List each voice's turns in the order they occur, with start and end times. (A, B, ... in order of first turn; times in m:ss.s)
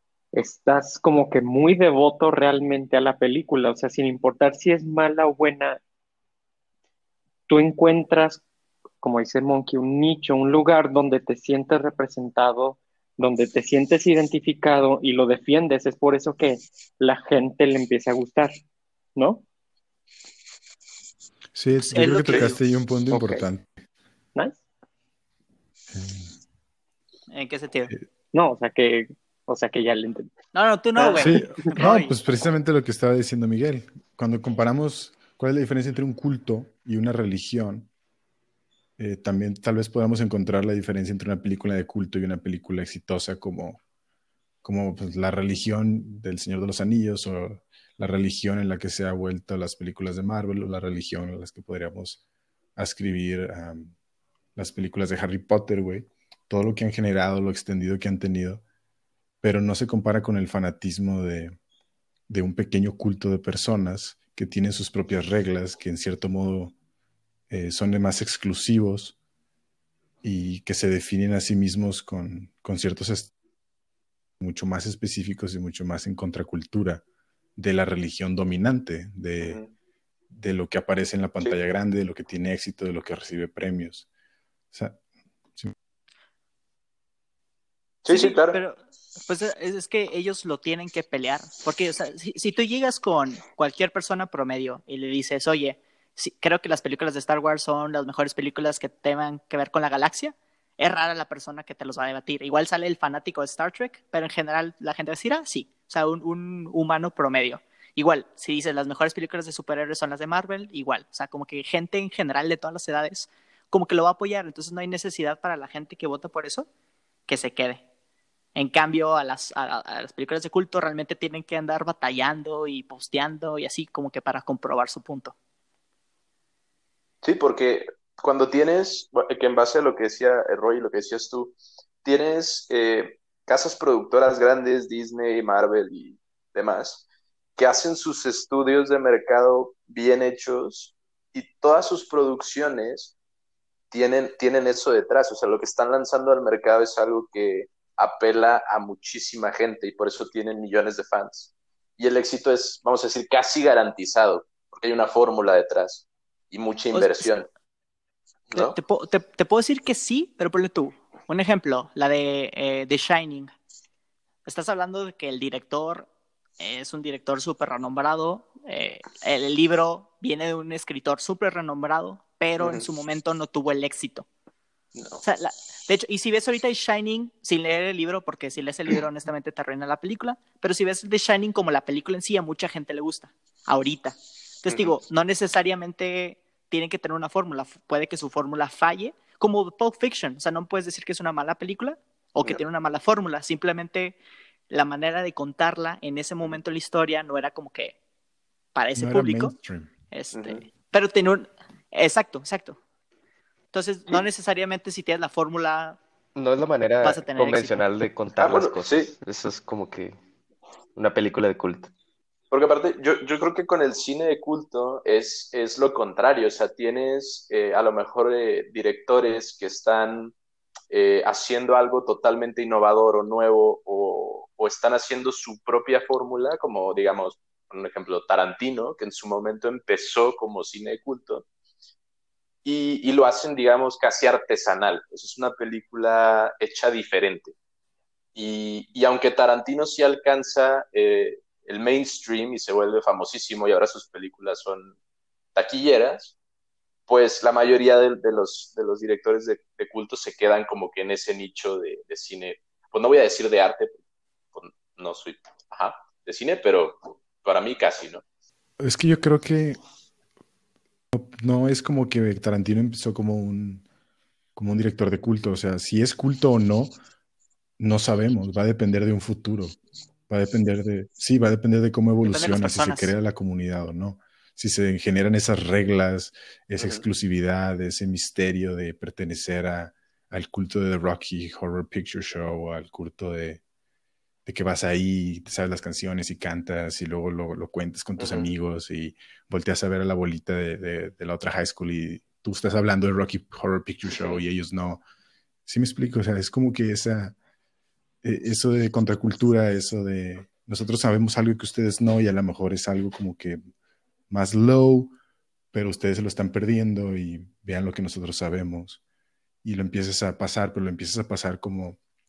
0:00.3-0:05.8 A
0:07.5-0:08.4 A
0:09.0-0:18.5 A
0:19.2-0:19.4 A
0:21.5-0:23.7 B
0:21.8-0:22.6 C
0:23.1-0:23.4 A
0:25.9-0:26.3 B
0:27.3-0:27.9 C
0:28.3-0:30.3 A
0:30.5-0:32.1 C
0:31.0-0:31.7 A
0:31.2-0:37.9 B
0:39.0-0:43.8 B
0:44.6-0:52.2 B
0:52.8-0:53.9 B
0:54.6-0:58.6 B
0:59.4-1:01.6 B
1:02.3-1:06.7 B
1:07.5-1:09.1 B
1:10.2-1:13.3 B
1:14.4-1:17.0 B
1:17.6-1:19.6 B
1:19.4-1:19.7 D
1:20.3-1:24.0 B
1:24.7-1:25.0 B
1:28.0-1:28.6 D
1:28.1-1:56.7 C
1:57.3-1:57.8 C
1:58.5-2:05.3 C
2:07.2-2:17.0 D
2:17.6-2:23.1 D
2:23.9-2:37.5 D
2:36.9-2:37.4 C
2:38.5-2:38.8 D
2:38.5-2:43.5 C
2:44.4-2:46.1 C
2:46.6-2:54.2 C
2:52.6-2:52.8 D
2:55.0-2:55.2 D
2:55.2-3:14.2 C
3:04.7-3:04.9 D
3:14.7-3:17.9 C
3:18.7-3:19.5 C
3:19.0-3:19.9 B
3:20.1-3:22.8 C
3:20.3-3:20.6 D
3:23.7-3:26.0 C
3:26.3-3:30.1 E
3:27.0-3:27.8 C
3:28.4-3:29.1 D
3:31.0-3:31.9 E
3:32.5-3:40.3 D
3:40.9-3:51.4 D
3:52.6-3:57.5 D
3:58.3-4:04.9 D
4:05.5-4:06.3 D
4:07.1-4:14.0 D
4:14.5-4:18.2 D
4:18.8-4:19.8 B
4:21.1-4:23.8 B
4:24.6-4:26.9 B
4:27.8-4:29.8 B
4:30.3-4:43.6 B
4:32.2-4:33.1 C
4:36.8-4:37.0 D
4:44.4-4:55.0 B
4:48.2-4:48.5 D
4:54.1-4:54.4 D
4:55.6-4:57.4 B
4:58.2-5:03.6 B
5:04.3-5:05.1 B
5:05.7-5:09.0 B
5:09.6-5:12.0 B